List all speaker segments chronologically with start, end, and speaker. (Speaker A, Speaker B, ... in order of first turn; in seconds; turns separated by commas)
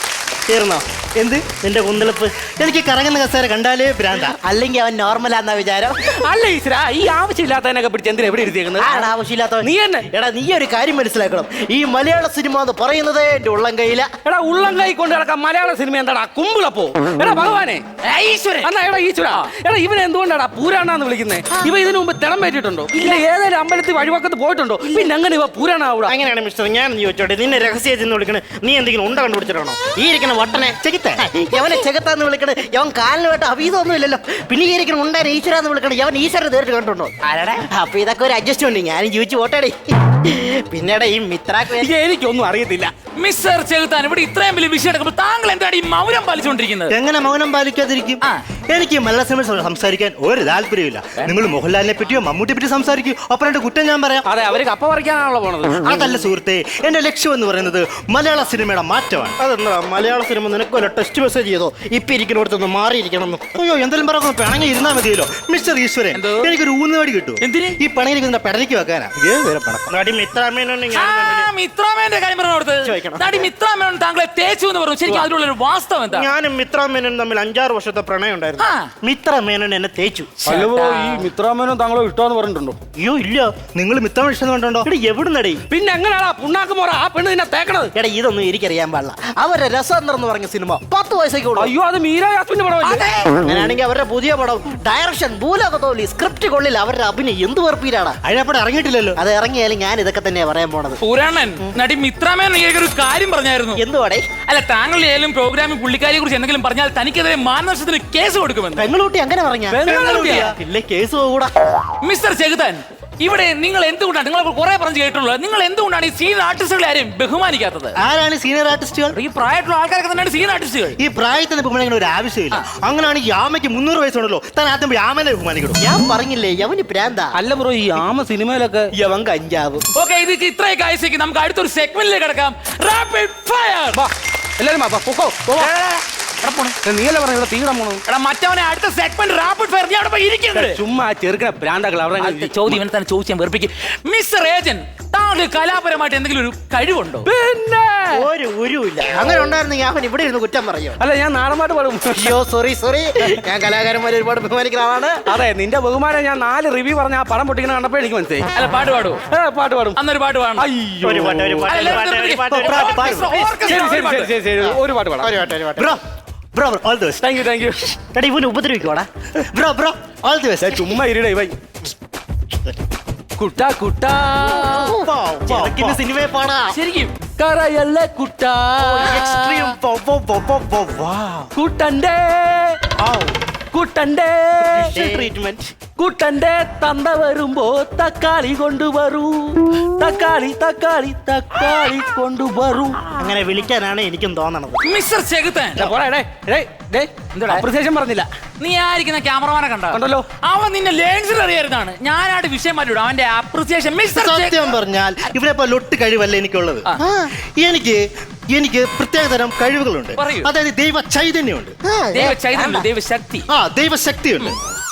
Speaker A: 0.5-4.4, Speaker B: 4.4-6.0, Speaker C: 6.0-9.1, Speaker B: 8.8-14.1, Speaker C: 9.6-10.1, Speaker C: 14.3-17.8, Speaker D: 18.0-18.7, Speaker C: 18.6-26.2, Speaker A: 26.4-29.8, Speaker B: 29.9-41.9, Speaker A: 30.8-31.2, Speaker C: 41.7-42.9, Speaker D: 43.2-47.0, Speaker A: 46.9-54.3, Speaker D: 51.2-51.5, Speaker C: 54.2-55.8, Speaker A: 55.8-71.5, Speaker D: 66.1-66.5, Speaker D: 67.4-67.8, Speaker D: 70.9-76.3, Speaker A: 72.9-73.3, Speaker A: 76.1-80.3, Speaker D: 78.6-78.9, Speaker D: 80.4-81.3, Speaker C: 80.4-82.8, Speaker A: 83.0-85.6, Speaker C: 85.7-87.9, Speaker B: 88.0-91.7, Speaker C: 91.6-93.2, Speaker B: 92.9-98.2, Speaker A: 98.2-99.2, Speaker B: 99.2-101.0, Speaker D: 101.0-103.8, Speaker B: 103.8-104.3, Speaker D: 104.5-108.9, Speaker B: 108.8-109.8, Speaker C: 109.7-110.5, Speaker A: 109.8-110.6, Speaker D: 109.9-110.5, Speaker B: 110.7-111.5, Speaker D: 112.0-118.0, Speaker A: 118.0-119.2, Speaker D: 119.1-121.0, Speaker A: 121.0-125.8, Speaker B: 125.8-127.3, Speaker C: 127.3-128.9, Speaker B: 128.9-129.8, Speaker D: 129.9-134.0, Speaker C: 133.9-135.7, Speaker D: 135.5-136.8, Speaker C: 136.8-138.0, Speaker D: 138.1-140.8, Speaker C: 140.5-142.8, Speaker D: 142.2-147.3, Speaker C: 147.2-148.3, Speaker B: 148.2-151.0, Speaker C: 151.0-152.4, Speaker B: 152.2-155.2, Speaker C: 155.2-158.5, Speaker D: 158.5-159.2, Speaker C: 159.3-160.0, Speaker D: 159.9-160.7, Speaker C: 160.6-161.7, Speaker A: 161.0-163.8, Speaker D: 161.7-164.3, Speaker C: 162.6-165.7, Speaker B: 165.2-165.8, Speaker A: 165.8-166.0, Speaker A: 166.5-167.2, Speaker C: 167.2-167.9, Speaker A: 168.1-168.8, Speaker B: 168.2-169.1, Speaker A: 169.5-171.0, Speaker C: 170.6-171.6, Speaker C: 173.4-174.9, Speaker B: 174.7-175.0, Speaker A: 174.9-176.4, Speaker B: 176.0-176.8, Speaker D: 176.7-177.2, Speaker C: 177.5-179.7, Speaker A: 178.8-181.5, Speaker D: 178.9-179.7, Speaker C: 181.6-182.8, Speaker A: 183.1-183.3, Speaker C: 183.7-185.3, Speaker A: 184.7-185.7, Speaker C: 186.0-193.2, Speaker A: 193.2-194.6, Speaker D: 194.8-195.9, Speaker C: 195.8-198.3, Speaker D: 197.3-197.7, Speaker D: 198.6-204.6, Speaker C: 199.9-200.3, Speaker A: 204.1-206.9, Speaker B: 207.0-207.3, Speaker A: 207.6-211.8, Speaker D: 210.2-210.5, Speaker B: 211.8-212.8, Speaker D: 212.1-213.4, Speaker A: 213.5-214.6